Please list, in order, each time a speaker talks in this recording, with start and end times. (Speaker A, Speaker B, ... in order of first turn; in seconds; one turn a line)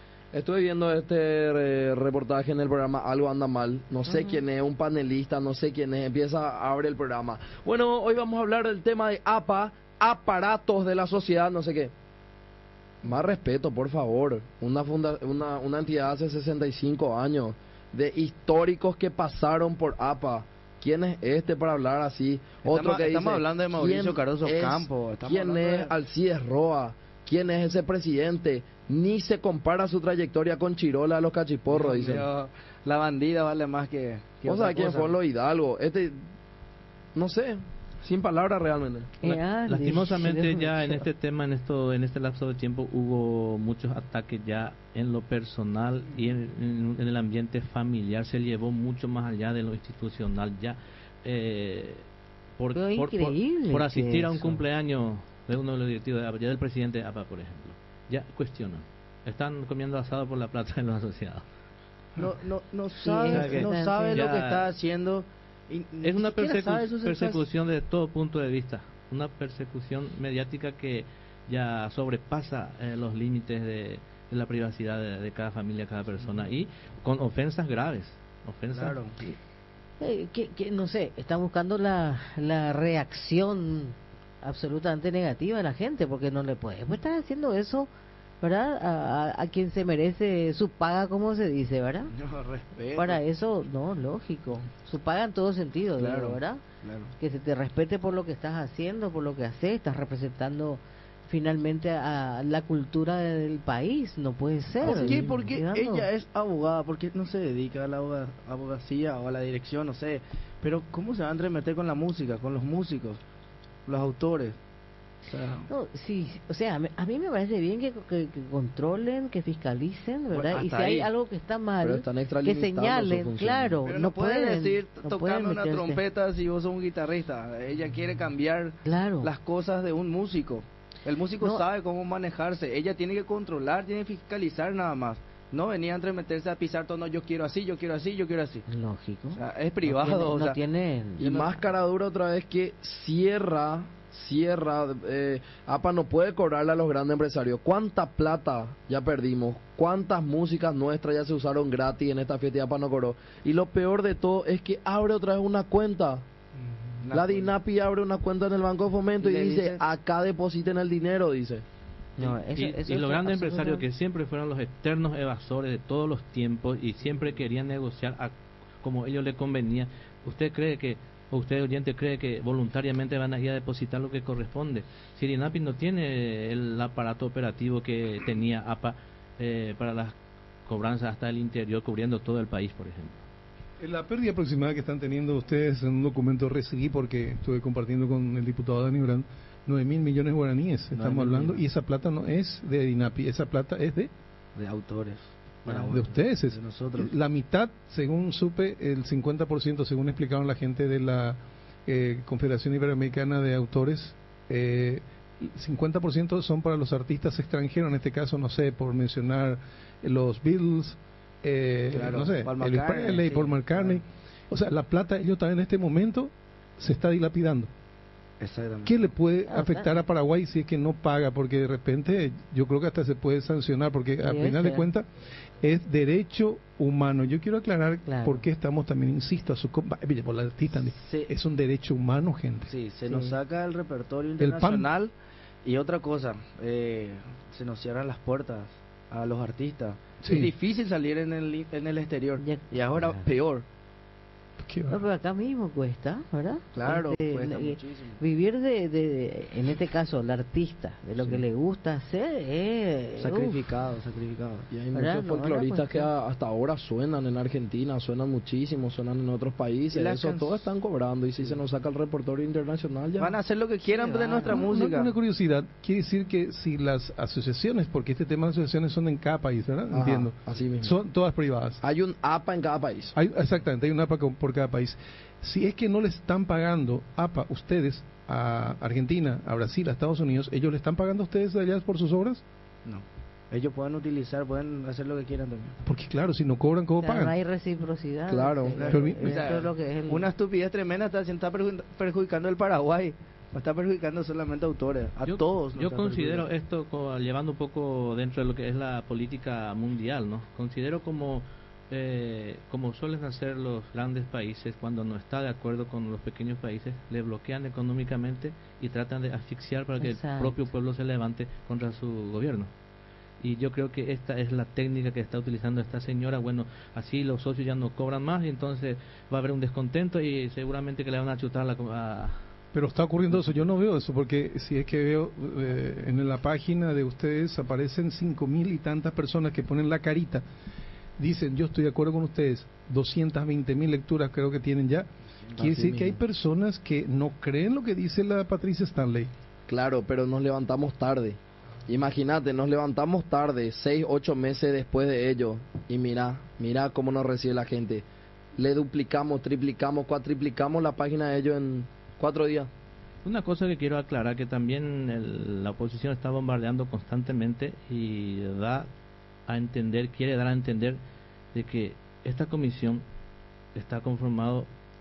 Speaker A: 0.3-11.9
Speaker B: 4.0-4.4
Speaker A: 13.0-32.3
Speaker C: 22.6-25.9
Speaker C: 31.7-35.2
Speaker A: 34.4-36.2
Speaker A: 37.1-39.1
Speaker B: 39.2-41.0
Speaker D: 39.2-52.0
Speaker D: 52.6-61.4
Speaker B: 52.7-54.5
Speaker C: 62.2-67.4
Speaker B: 63.0-64.2
Speaker D: 63.3-63.6
Speaker D: 64.1-64.7
Speaker D: 66.0-79.0
Speaker C: 78.7-79.3
Speaker B: 80.0-87.9
Speaker B: 88.4-92.1
Speaker C: 92.1-93.2
Speaker B: 92.9-96.6
Speaker C: 96.0-97.1
Speaker B: 97.2-106.1
Speaker C: 104.8-113.2
Speaker C: 113.9-114.6
Speaker C: 115.2-115.7
Speaker B: 115.7-126.0
Speaker C: 120.3-121.1
Speaker A: 121.8-123.8
Speaker C: 123.8-138.6
Speaker B: 128.8-129.3
Speaker B: 138.7-141.3
Speaker C: 139.3-140.6
Speaker A: 141.2-156.2
Speaker C: 141.2-141.5
Speaker C: 157.0-157.5
Speaker A: 157.1-161.6
Speaker C: 159.2-159.8
Speaker B: 162.2-163.8
Speaker D: 162.6-180.1
Speaker D: 180.7-183.2
Speaker E: 183.8-194.1
Speaker C: 190.9-191.6
Speaker C: 194.5-197.1
Speaker E: 195.9-217.7
Speaker C: 211.9-214.0
Speaker C: 218.4-219.0
Speaker E: 218.8-225.1
Speaker B: 219.5-220.0
Speaker B: 224.2-224.9
Speaker E: 225.6-232.7
Speaker B: 228.1-228.4
Speaker C: 230.9-231.3
Speaker C: 232.7-235.1
Speaker B: 233.1-233.4
Speaker E: 234.4-234.9
Speaker C: 235.6-243.6
Speaker E: 240.2-240.5
Speaker B: 242.4-243.3
Speaker E: 244.6-245.0
Speaker B: 244.9-253.7
Speaker C: 246.7-248.2
Speaker C: 253.2-254.7
Speaker A: 254.7-263.4
Speaker B: 254.9-256.1
Speaker C: 259.9-260.7
Speaker C: 263.2-265.1
Speaker B: 263.9-264.7
Speaker E: 264.4-271.8
Speaker A: 269.9-270.9
Speaker A: 271.8-273.1
Speaker E: 273.1-282.4
Speaker C: 282.8-285.8
Speaker E: 285.8-287.3
Speaker B: 287.0-290.3
Speaker A: 288.3-288.8
Speaker C: 288.7-296.5
Speaker E: 288.9-289.5
Speaker D: 295.2-312.7
Speaker B: 310.0-310.6
Speaker D: 313.4-322.4
Speaker E: 322.7-330.4
Speaker E: 331.2-339.3
Speaker C: 335.4-336.1
Speaker A: 339.7-348.0
Speaker A: 348.6-352.7
Speaker D: 353.2-358.9
Speaker D: 359.5-361.0
Speaker D: 361.5-363.0
Speaker D: 363.7-364.7